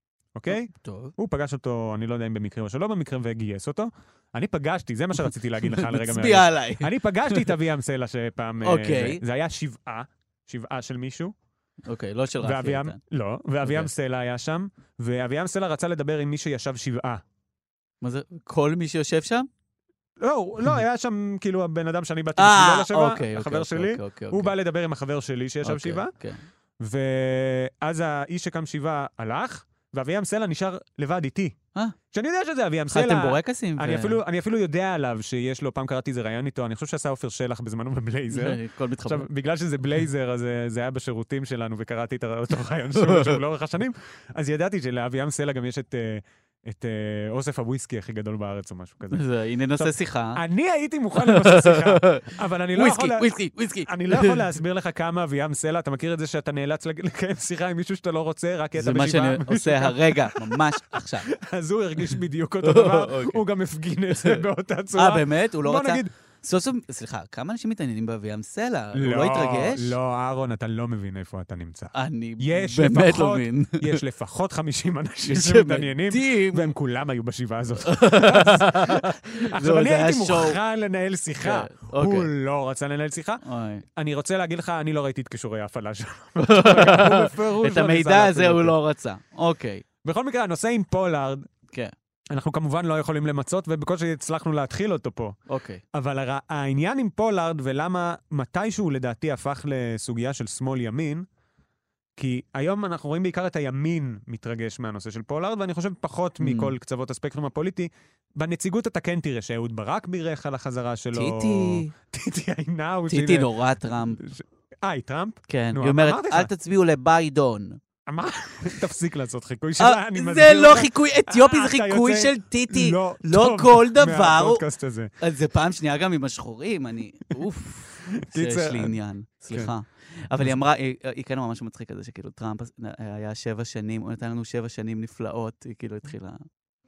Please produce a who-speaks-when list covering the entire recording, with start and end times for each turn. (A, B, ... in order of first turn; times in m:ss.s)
0:00.3-0:11.3 A
0:00.5-0:01.1 B
0:05.6-0:07.5 B
0:08.6-0:09.2 B
0:11.8-0:13.0 B
0:12.4-0:17.2 A
0:13.6-0:13.9 B
0:18.0-0:19.5 B
0:20.2-0:26.1 A
0:22.4-0:24.5 B
0:25.6-0:26.4 B
0:26.8-0:31.5 A
0:32.1-0:49.2 A
0:32.9-0:34.2 B
0:38.3-0:39.3 B
0:43.0-0:43.4 B
0:49.1-0:50.4 B
0:49.8-0:53.3 A
0:51.2-0:54.5 B
0:53.8-1:06.1 A
0:58.8-1:01.3 B
1:02.6-1:03.4 B
1:04.1-1:10.0 B
1:08.9-1:23.4 A
1:11.9-1:14.0 B
1:15.2-1:16.7 B
1:17.8-1:20.6 B
1:21.4-1:22.3 B
1:23.4-1:23.8 B
1:23.9-1:28.8 A
1:26.4-1:29.8 B
1:30.0-1:31.5 A
1:32.3-1:35.4 A
1:35.5-1:35.8 B
1:35.9-1:41.3 A
1:42.2-1:53.5 A
1:46.4-1:46.7 B
1:51.1-1:51.9 B
1:53.1-1:54.2 B
1:54.2-1:56.5 A
1:55.5-1:57.8 B
1:58.0-2:05.1 A
1:59.8-2:04.6 B
2:05.2-2:16.4 B
2:08.0-2:09.0 A